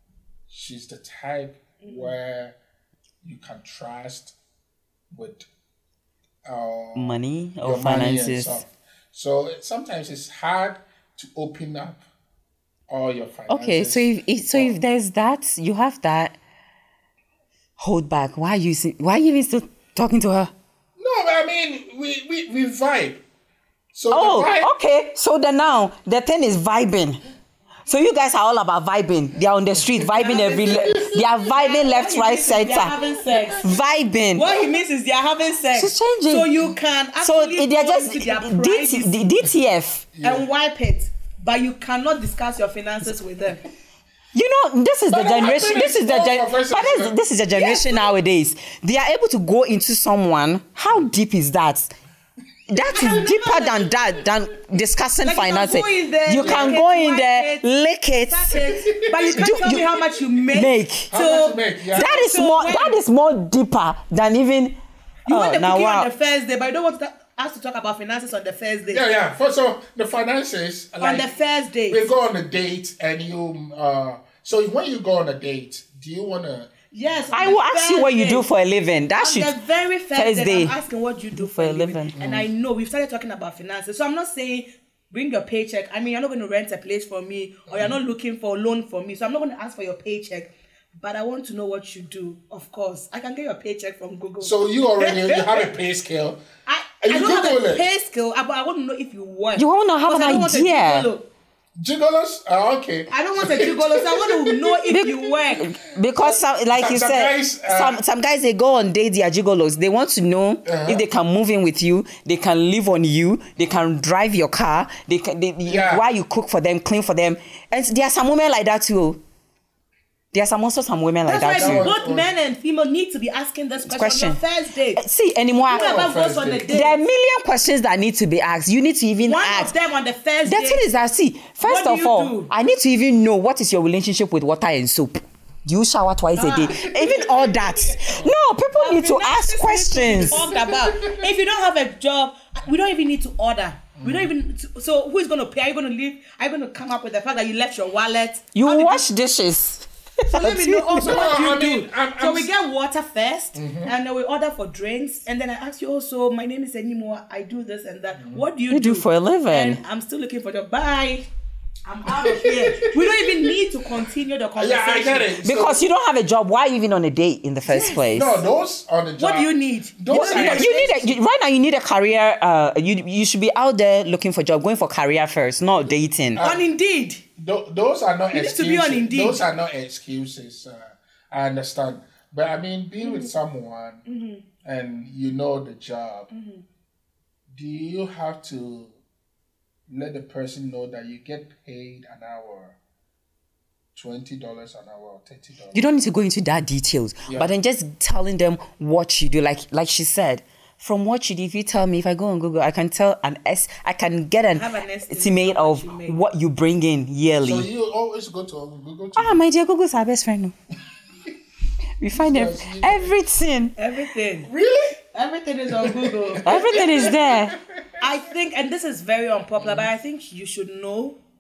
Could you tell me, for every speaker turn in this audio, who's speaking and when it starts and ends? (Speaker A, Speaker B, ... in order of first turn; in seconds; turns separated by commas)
Speaker A: 0.5-2.6, Speaker B: 1.8-2.1, Speaker A: 3.2-4.4, Speaker A: 5.1-5.5, Speaker A: 6.5-12.1, Speaker C: 7.0-8.6, Speaker A: 12.9-14.8, Speaker C: 13.5-16.4, Speaker C: 17.8-20.5, Speaker A: 21.0-23.2, Speaker A: 23.9-24.7, Speaker C: 24.1-27.2, Speaker C: 27.9-33.0, Speaker B: 30.1-33.7, Speaker A: 30.6-31.3, Speaker A: 33.0-33.6, Speaker C: 33.6-34.5, Speaker B: 34.3-39.4, Speaker C: 35.7-36.6, Speaker C: 37.2-40.1, Speaker A: 40.1-40.5, Speaker B: 40.2-43.6, Speaker C: 44.3-51.9, Speaker A: 45.1-47.2, Speaker B: 47.5-48.1, Speaker C: 52.7-58.6, Speaker B: 52.9-54.0, Speaker B: 55.2-57.7, Speaker A: 56.4-56.8, Speaker B: 58.3-63.0, Speaker A: 58.9-60.0, Speaker C: 59.3-59.9, Speaker C: 60.5-61.1, Speaker A: 61.1-62.1, Speaker C: 61.9-64.8, Speaker B: 65.3-69.0, Speaker C: 65.3-66.1, Speaker A: 68.9-71.3, Speaker B: 71.0-72.1, Speaker A: 71.9-77.3, Speaker B: 76.9-78.5, Speaker C: 77.3-79.5, Speaker B: 79.2-95.7, Speaker C: 80.1-80.8, Speaker C: 81.3-82.2, Speaker A: 82.2-82.5, Speaker A: 94.4-96.4, Speaker B: 96.7-101.3, Speaker A: 97.0-97.9, Speaker C: 99.6-101.1, Speaker A: 101.8-105.1, Speaker B: 103.1-105.7, Speaker C: 104.9-119.2, Speaker A: 106.2-108.0, Speaker A: 110.7-111.0, Speaker A: 115.7-116.1, Speaker C: 120.3-121.9, Speaker B: 121.2-125.0, Speaker A: 121.5-122.3, Speaker C: 123.8-124.4, Speaker C: 125.0-125.9, Speaker A: 125.7-126.8, Speaker B: 125.7-127.0, Speaker C: 126.7-129.7, Speaker B: 129.2-130.9, Speaker C: 130.5-140.5, Speaker B: 131.6-132.5, Speaker B: 136.3-138.0, Speaker A: 136.8-137.3, Speaker A: 138.0-138.6, Speaker B: 138.7-149.1, Speaker A: 140.1-141.3, Speaker A: 144.0-144.3, Speaker C: 148.6-151.2, Speaker B: 150.3-161.3, Speaker A: 150.9-152.5, Speaker A: 153.6-153.9, Speaker A: 158.2-158.4, Speaker C: 158.7-159.8, Speaker B: 161.8-165.3, Speaker A: 162.1-163.6, Speaker A: 164.6-165.8, Speaker C: 165.4-168.4, Speaker B: 167.7-168.1, Speaker A: 168.1-171.1, Speaker B: 169.2-171.1, Speaker C: 170.2-176.4, Speaker A: 176.3-176.7, Speaker B: 176.4-177.2, Speaker A: 177.4-184.1, Speaker B: 178.3-179.4, Speaker B: 183.0-183.3, Speaker B: 184.1-184.4, Speaker A: 184.6-186.3, Speaker B: 186.3-186.6, Speaker A: 187.5-189.0, Speaker A: 189.9-192.8, Speaker A: 193.9-195.9, Speaker C: 195.7-207.7, Speaker B: 204.5-206.2, Speaker A: 207.4-209.4, Speaker C: 209.2-210.5, Speaker C: 212.0-213.8, Speaker A: 212.1-213.2, Speaker B: 213.8-214.5, Speaker A: 214.5-215.0, Speaker B: 215.1-217.1, Speaker A: 215.7-218.0, Speaker C: 216.4-217.6, Speaker B: 218.0-221.2, Speaker A: 219.6-219.9